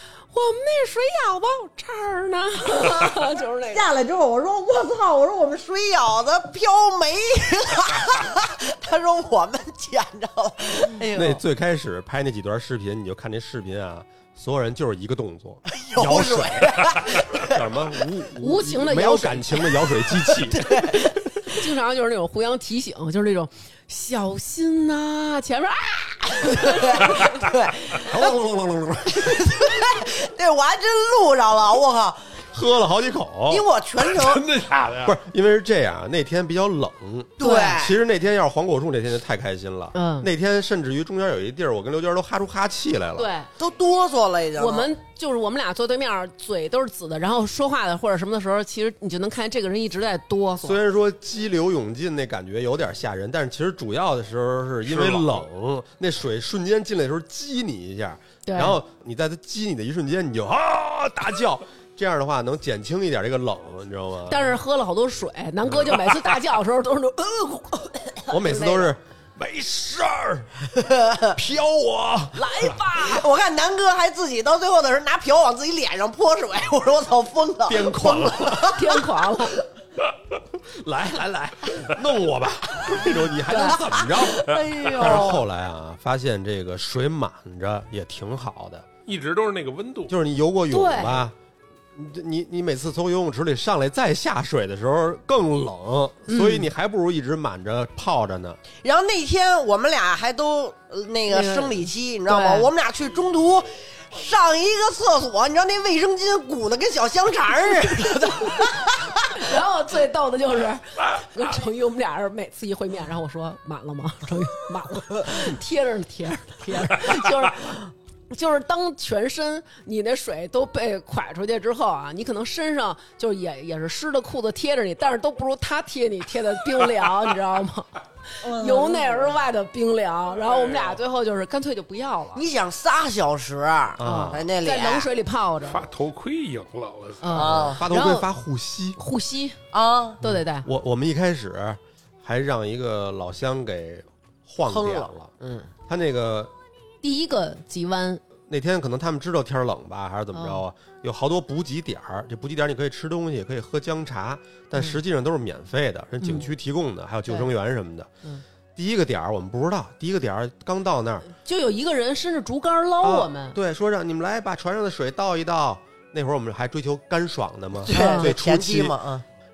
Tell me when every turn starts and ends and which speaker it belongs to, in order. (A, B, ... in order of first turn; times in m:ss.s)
0:00.3-0:03.9 A
0:03.7-0:11.4 B
0:11.1-0:21.1 C
0:15.7-0:17.7 B
0:18.4-0:19.8 A
0:20.5-0:21.2 B
0:21.4-0:27.2 A
0:26.6-0:28.4 B
0:28.1-0:29.8 C
0:29.1-0:32.4 B
0:32.5-0:33.6 C
0:33.5-0:34.4 B
0:34.0-0:35.2 D
0:35.0-0:43.3 C
0:37.4-0:38.0 B
0:37.4-0:37.8 A
0:39.9-0:40.3 A
0:43.2-0:43.5 A
0:43.6-0:44.9 B
0:44.6-0:50.8 A
0:50.6-1:04.5 C
0:54.8-0:55.4 D
0:58.4-0:58.8 A
1:04.3-1:08.9 A
1:05.7-1:06.0 C
1:08.3-1:10.6 C
1:10.8-1:11.4 B
1:11.3-1:12.6 C
1:12.3-1:13.3 A
1:13.0-1:19.5 B
1:17.6-1:18.8 C
1:18.7-1:19.6 A
1:20.5-1:28.8 C
1:23.4-1:23.8 A
1:23.8-1:25.4 B
1:29.1-1:30.1 D
1:30.1-1:31.4 C
1:30.7-1:31.2 A
1:31.9-1:38.6 C
1:36.3-1:36.7 A
1:38.8-1:49.4 B
1:41.3-1:42.7 A
1:49.3-2:12.4 A
2:08.4-2:09.3 B
2:10.5-2:11.0 D
2:12.4-2:15.1 B
2:14.0-2:14.5 C
2:14.0-2:15.8 A
2:15.6-2:17.7 D
2:17.2-2:18.3 A
2:17.3-2:17.8 B
2:17.7-2:19.0 C
2:19.0-2:19.6 A
2:19.7-2:20.2 B
2:20.2-2:20.7 A
2:20.2-2:25.3 C
2:24.7-2:25.7 B
2:25.9-2:26.5 C
2:27.0-2:28.2 A
2:28.5-2:38.1 C
2:30.3-2:30.6 A
2:36.2-2:36.5 A
2:38.8-2:41.3 C
2:41.3-2:43.6 A
2:43.0-2:49.0 C
2:47.8-2:49.2 B
2:47.9-2:48.3 A